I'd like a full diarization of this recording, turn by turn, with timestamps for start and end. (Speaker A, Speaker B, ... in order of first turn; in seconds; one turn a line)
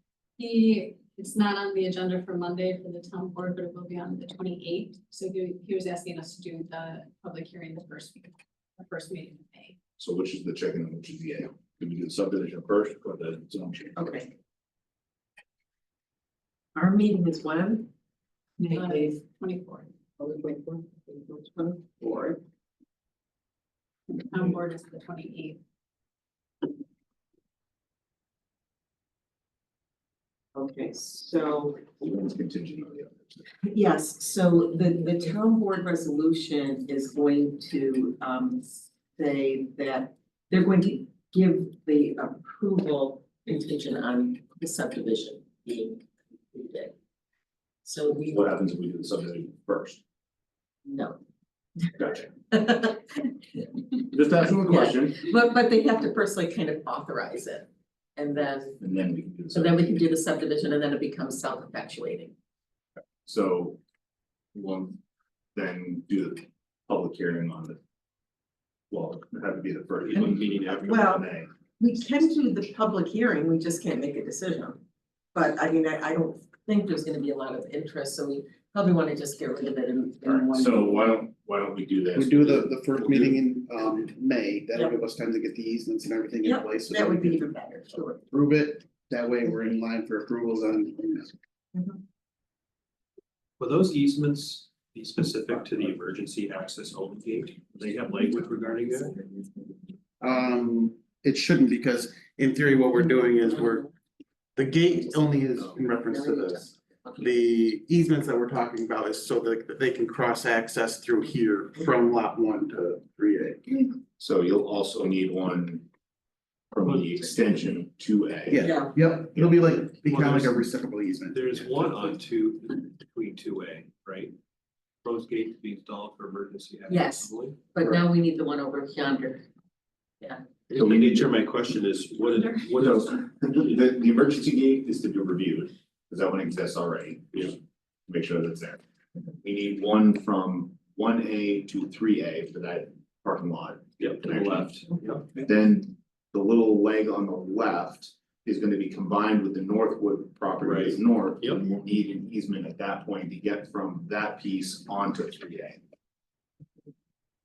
Speaker A: 0.4-9.8
Speaker B: 10.0-14.0
Speaker C: 14.0-14.3
Speaker C: 16.8-17.9
Speaker A: 18.6-19.9
Speaker C: 18.6-19.2
Speaker C: 20.2-22.4
Speaker A: 24.1-25.6
Speaker C: 30.5-31.8
Speaker B: 32.0-33.5
Speaker C: 33.6-46.9
Speaker C: 47.8-48.5
Speaker B: 48.3-50.0
Speaker C: 50.9-51.2
Speaker B: 52.0-52.3
Speaker C: 52.5-53.7
Speaker B: 54.1-55.2
Speaker C: 54.6-58.8
Speaker B: 58.8-60.0
Speaker C: 59.5-62.4
Speaker B: 63.2-63.8
Speaker B: 64.5-65.0
Speaker B: 65.5-67.8
Speaker B: 68.9-71.5
Speaker D: 70.0-70.9
Speaker C: 70.8-71.3
Speaker C: 71.8-74.8
Speaker C: 75.3-81.0
Speaker B: 80.4-83.4
Speaker E: 82.2-87.5
Speaker C: 86.4-88.2
Speaker E: 88.3-91.3
Speaker D: 93.6-99.2
Speaker C: 99.2-99.5
Speaker E: 100.2-103.9
Speaker C: 103.2-103.9
Speaker E: 104.6-113.9
Speaker C: 104.9-107.2
Speaker B: 114.2-115.9
Speaker B: 116.7-118.6
Speaker D: 116.8-117.7
Speaker E: 118.5-121.8
Speaker C: 118.6-119.0
Speaker B: 119.3-119.6
Speaker D: 120.1-120.7
Speaker D: 121.3-124.3
Speaker D: 125.0-127.6
Speaker C: 126.9-129.5
Speaker D: 130.7-133.1
Speaker B: 130.8-131.3
Speaker B: 132.8-138.8
Speaker B: 139.4-144.8
Speaker D: 144.0-145.5
Speaker B: 145.3-155.8
Speaker D: 150.6-151.6